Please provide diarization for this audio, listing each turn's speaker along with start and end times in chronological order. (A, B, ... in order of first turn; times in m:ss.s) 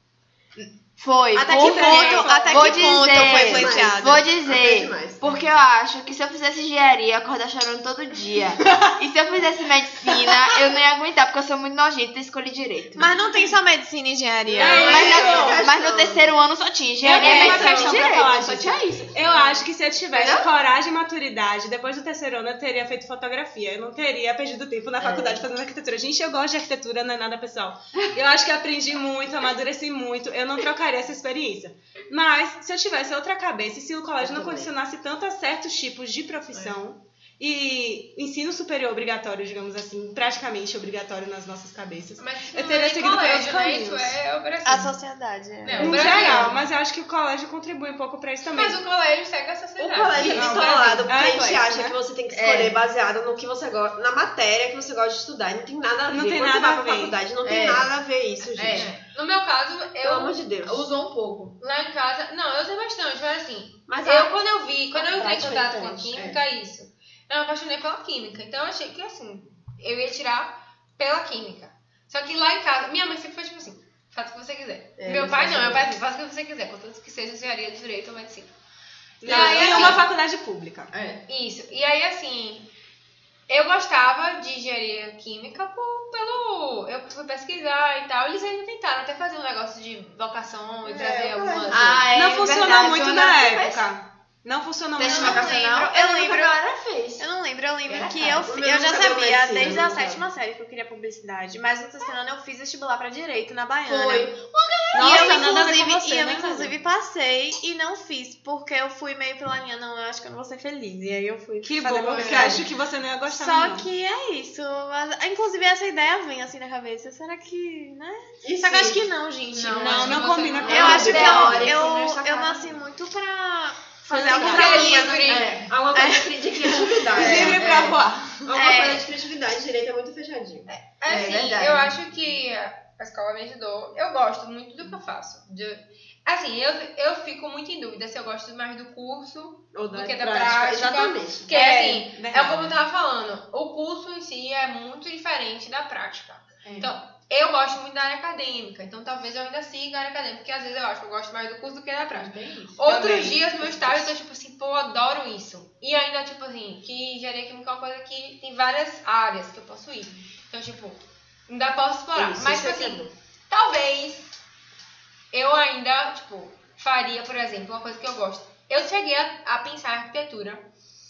0:00.6-0:13.1 A
0:01.3-0:04.3 B
0:01.5-0:03.2 C
0:03.0-0:05.5 D
0:13.0-0:15.2 B
0:14.5-0:16.3 D
0:14.6-0:15.6 C
0:14.6-0:19.2 A
0:17.0-0:44.2 C
0:17.1-0:18.2 B
0:17.1-0:18.1 D
0:20.1-0:20.5 A
0:25.0-0:25.4 D
0:34.2-0:34.7 D
0:42.2-0:44.9 E
0:44.6-0:46.3 B
0:45.6-0:46.6 E
0:45.8-0:48.8 C
0:46.0-0:46.5 D
0:48.4-0:50.5 E
0:49.8-0:58.9 D
0:50.1-0:51.5 A
0:50.2-0:52.0 C
0:52.3-0:52.8 A
0:56.1-0:57.2 C
0:57.4-0:57.9 A
0:58.5-0:59.0 A
0:58.7-1:00.4 E
1:00.0-1:00.8 D
1:00.6-1:01.6 A
1:01.6-1:18.5 E
1:03.9-1:04.4 D
1:04.9-1:06.4 D
1:15.0-1:15.9 D
1:19.2-1:20.9 C
1:19.2-1:20.0 E
1:19.2-1:20.0 D
1:19.3-1:20.0 A
1:20.9-1:21.2 A
1:21.3-1:22.7 E
1:23.5-1:32.0 E
1:30.8-1:32.1 D
1:31.7-1:33.8 A
1:32.1-1:35.5 C
1:35.0-1:37.3 A
1:35.0-1:36.6 B
1:37.2-1:44.4 B
1:37.9-1:38.6 A
1:38.4-1:40.2 D
1:39.6-1:39.9 A
1:43.8-1:45.6 A
1:44.9-1:46.7 C
1:44.9-1:52.6 B
1:51.6-1:53.9 C
1:52.2-1:52.6 A
1:53.3-2:06.3 B
1:58.4-1:59.0 D
1:59.5-2:01.5 E
1:59.8-2:01.7 C
2:00.6-2:02.7 A
2:00.7-2:01.9 D
2:04.1-2:05.0 C
2:04.3-2:05.6 E
2:04.4-2:10.7 D
2:05.2-2:05.7 A
2:07.1-2:08.1 A
2:07.1-2:08.5 C
2:08.5-2:09.1 B
2:10.7-2:44.3 E
2:11.1-2:11.9 A
2:19.7-2:21.5 D
2:21.5-2:22.8 C
2:26.6-2:26.9 A
2:32.1-2:32.8 A
2:32.8-2:34.0 C
2:42.1-2:43.1 D
2:45.3-2:50.7 E